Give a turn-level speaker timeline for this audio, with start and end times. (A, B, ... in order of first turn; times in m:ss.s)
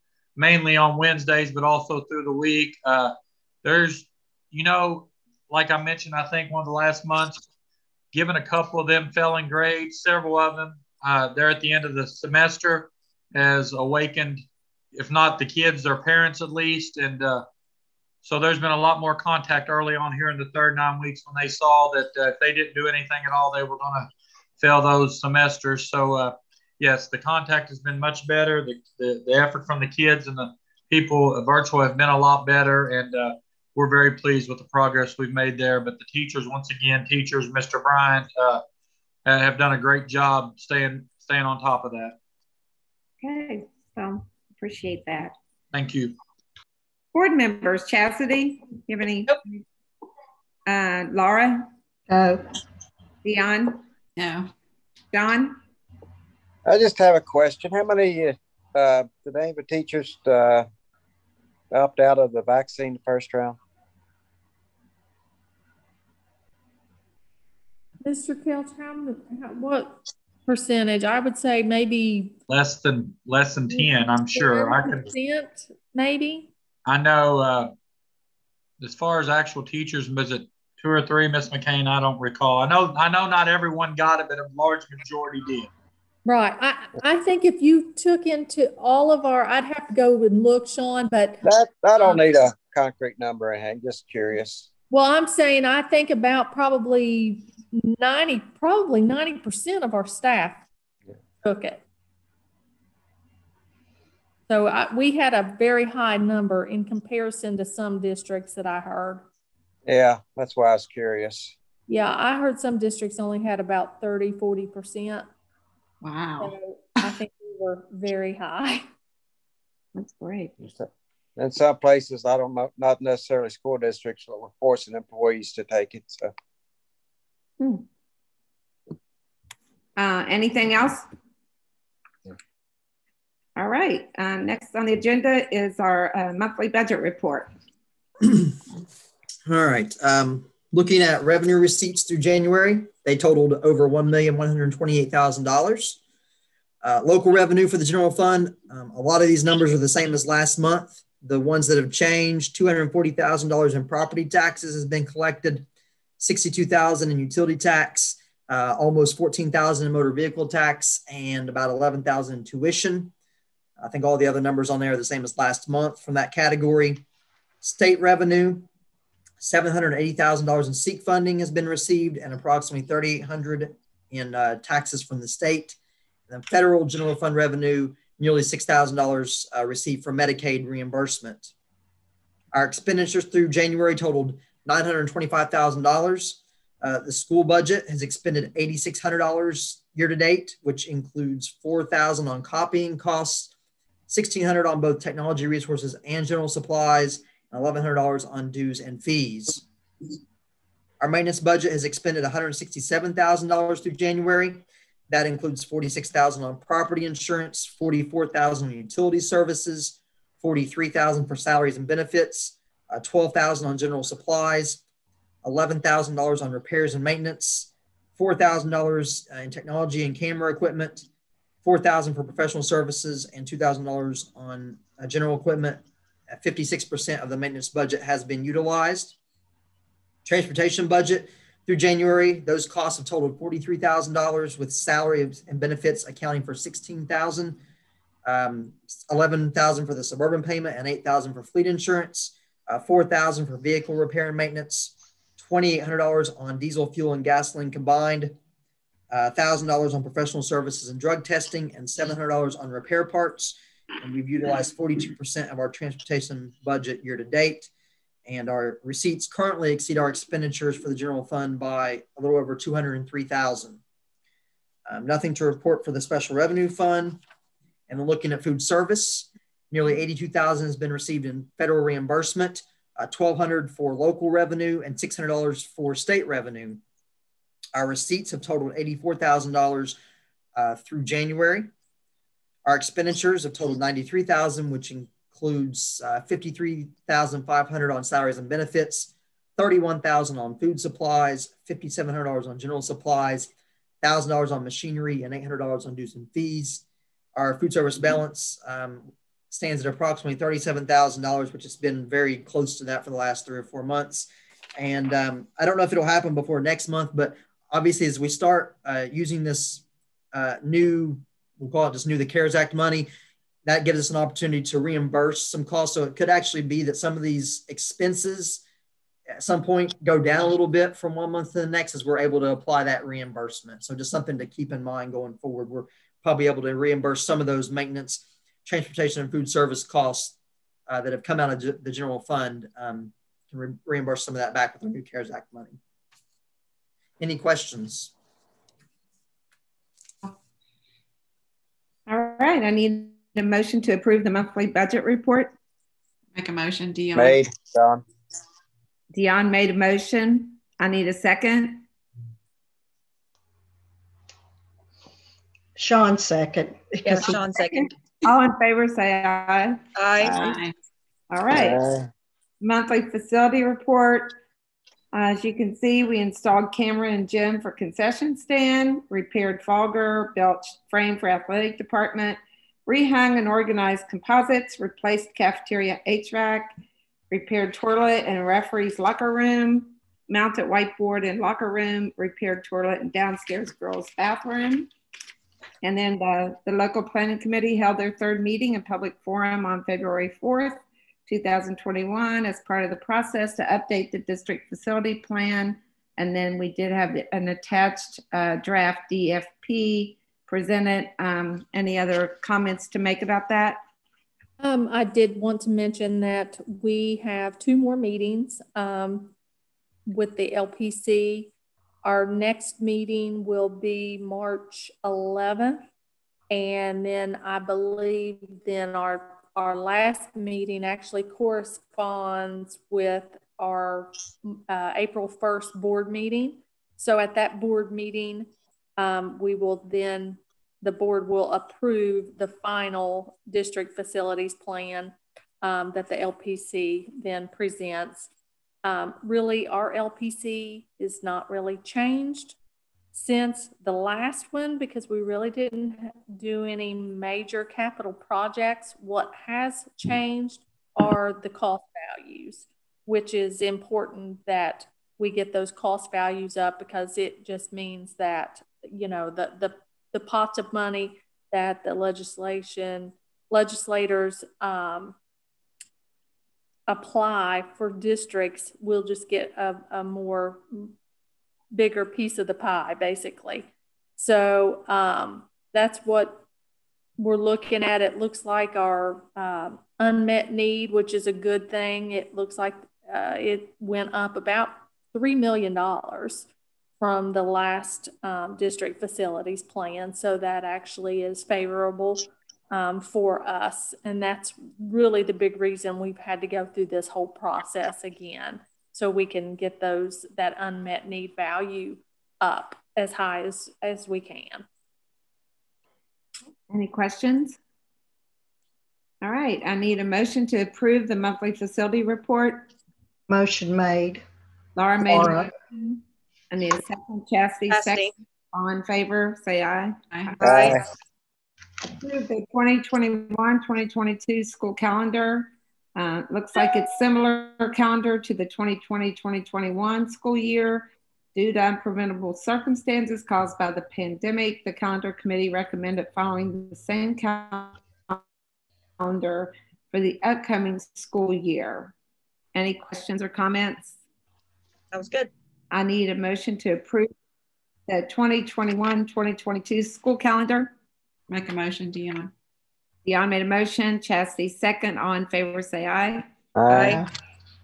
0:00.4-0:07.4 A
0:08.1-0:14.4 A
0:14.9-0:17.4 A
0:18.2-0:24.1 A
0:24.6-0:38.6 A
0:39.3-0:42.2 A
0:43.2-0:45.3 B
0:45.7-0:46.1 A
0:47.1-0:49.6 B
0:50.7-0:51.6 B
0:52.1-0:52.4 C
0:53.2-0:53.8 B
0:54.2-0:54.5 D
0:55.1-0:55.6 B
0:56.6-1:00.7 E
1:01.7-1:03.6 E
1:08.0-1:12.4 F
1:12.5-1:15.1 A
1:13.7-1:16.5 F
1:16.9-1:17.7 A
1:18.8-1:25.7 A
1:26.2-1:31.4 F
1:31.4-1:34.7 E
1:34.9-1:40.7 F
1:41.4-1:41.8 F
1:44.5-1:49.3 F
1:49.9-1:51.5 E
1:51.9-1:55.3 F
1:56.0-1:56.6 D
1:56.4-1:58.9 F
2:00.0-2:00.6 B
2:00.6-2:06.3 E
2:10.0-2:11.0 B
2:13.6-2:17.5 B
2:18.2-2:18.6 G
2:19.5-2:26.0 G
2:26.8-2:35.7 G
2:36.2-2:43.1 G
2:43.8-2:47.0 G
2:47.6-2:48.7 G
2:49.4-2:55.8 G
2:56.3-3:01.5 G
3:02.5-3:13.5 G
3:14.1-3:19.6 G
3:21.0-3:34.8 G
3:35.4-3:41.1 G
3:41.6-3:49.2 G
3:50.2-3:57.6 G
3:58.2-4:08.4 G
4:09.1-4:17.7 G
4:18.3-4:23.8 G
4:24.9-4:27.2 G
4:27.9-4:36.8 G
4:37.8-4:40.0 G
4:40.6-4:41.7 G
4:42.6-4:56.8 G
4:57.4-5:13.1 G
5:13.6-5:18.6 G
5:19.3-5:30.4 G
5:30.9-5:35.8 G
5:37.2-5:38.1 G
5:42.1-5:45.5 B
5:46.3-5:47.4 D
5:47.2-5:48.0 E
5:49.1-5:51.8 B
5:55.8-5:57.4 C
5:57.0-5:57.9 H
5:57.6-6:00.6 B
6:00.0-6:00.6 H
6:00.2-6:00.7 D
6:01.3-6:01.8 B
6:01.5-6:02.1 E
6:02.6-6:04.4 B
6:05.1-6:16.7 B
6:17.3-6:24.9 B
6:25.8-6:43.8 B
6:44.6-6:49.3 F
6:50.1-6:51.5 F
6:52.0-6:55.8 F
6:56.5-7:18.3 F
7:18.8-7:22.6 F
7:23.1-7:45.2 F
7:46.9-7:50.9 F
7:51.7-7:56.4 F
7:57.2-8:06.5 F
8:07.0-8:24.7 F
8:26.7-8:27.6 B
8:29.2-8:32.7 B
8:33.3-8:34.2 C
8:34.8-8:36.0 B
8:35.0-8:35.5 C
8:36.5-8:40.7 B
8:37.7-8:38.1 H
8:40.1-8:40.4 D
8:40.4-8:40.8 H
8:40.4-8:40.8 E
8:42.0-8:58.2 B
8:59.0-9:01.9 B
9:02.6-9:04.0 B
9:04.9-9:05.3 H
9:05.7-9:07.1 B
9:07.9-9:10.7 B
9:11.3-9:12.3 D
9:13.0-9:16.3 B
9:16.6-9:17.0 E
9:16.7-9:17.0 H